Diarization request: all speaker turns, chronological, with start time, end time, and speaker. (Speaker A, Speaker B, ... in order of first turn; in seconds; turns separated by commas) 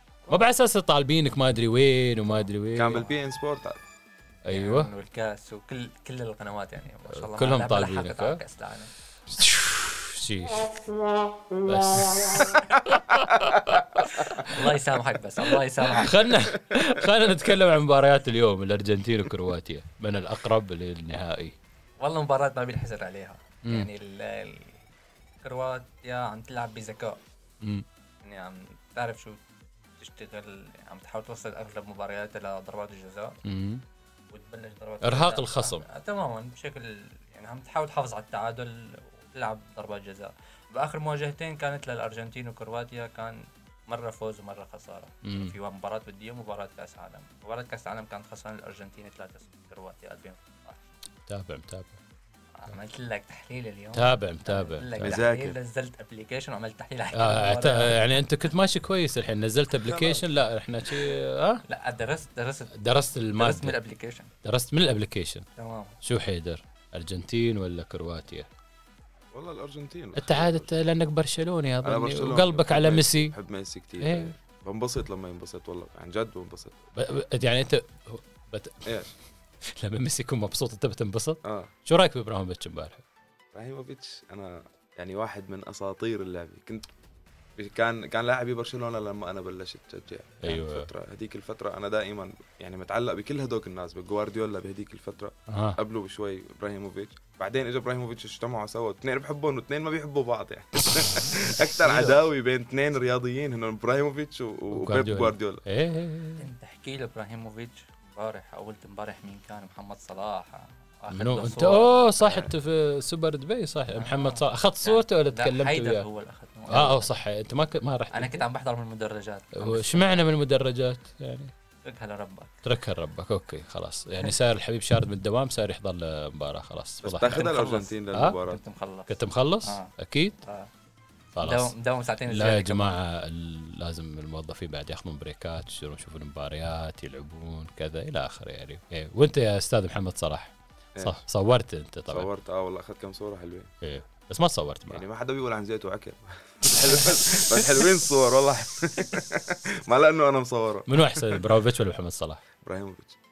Speaker A: 0.3-3.0, Speaker B: 2.7-3.8, Speaker A: 4.5-4.9, Speaker C: 4.5-8.9, Speaker A: 7.1-8.4, Speaker A: 9.3-10.7, Speaker A: 11.6-14.5, Speaker C: 14.1-16.2, Speaker A: 15.8-21.6, Speaker C: 22.0-24.9, Speaker C: 25.4-27.2, Speaker C: 28.2-29.4, Speaker C: 30.0-33.4, Speaker A: 33.5-33.8, Speaker C: 34.3-50.8, Speaker A: 35.0-35.9, Speaker A: 45.2-45.5, Speaker A: 51.3-52.0, Speaker C: 52.6-58.1, Speaker A: 53.9-55.2, Speaker B: 55.0-55.6, Speaker A: 57.1-61.6, Speaker B: 59.8-60.3, Speaker C: 61.7-62.7, Speaker A: 62.8-63.8, Speaker C: 63.4-64.3, Speaker A: 64.4-65.4, Speaker C: 65.6-66.0, Speaker A: 66.0-68.5, Speaker B: 69.3-70.7, Speaker A: 70.2-73.3, Speaker B: 71.8-76.7, Speaker A: 74.0-74.3, Speaker A: 77.0-79.0, Speaker B: 78.9-79.1, Speaker A: 79.7-83.0, Speaker B: 81.4-81.7, Speaker B: 83.5-86.9, Speaker B: 87.6-105.6, Speaker A: 90.4-90.9, Speaker A: 95.5-95.8, Speaker A: 101.6-102.2, Speaker A: 104.7-106.5, Speaker C: 106.4-112.0, Speaker A: 111.1-116.1, Speaker B: 112.2-112.5, Speaker C: 114.0-117.1, Speaker A: 116.7-118.4, Speaker C: 118.1-120.3, Speaker A: 119.6-121.5, Speaker C: 121.8-122.5, Speaker A: 122.7-127.5, Speaker B: 127.0-128.6, Speaker C: 127.2-129.9, Speaker A: 129.1-130.4, Speaker C: 130.4-130.7, Speaker A: 131.3-131.7, Speaker C: 131.4-133.0, Speaker A: 132.3-142.3, Speaker B: 141.0-141.2, Speaker B: 142.1-143.7, Speaker A: 143.8-145.1, Speaker B: 144.9-151.5, Speaker A: 150.9-152.4, Speaker B: 152.6-153.2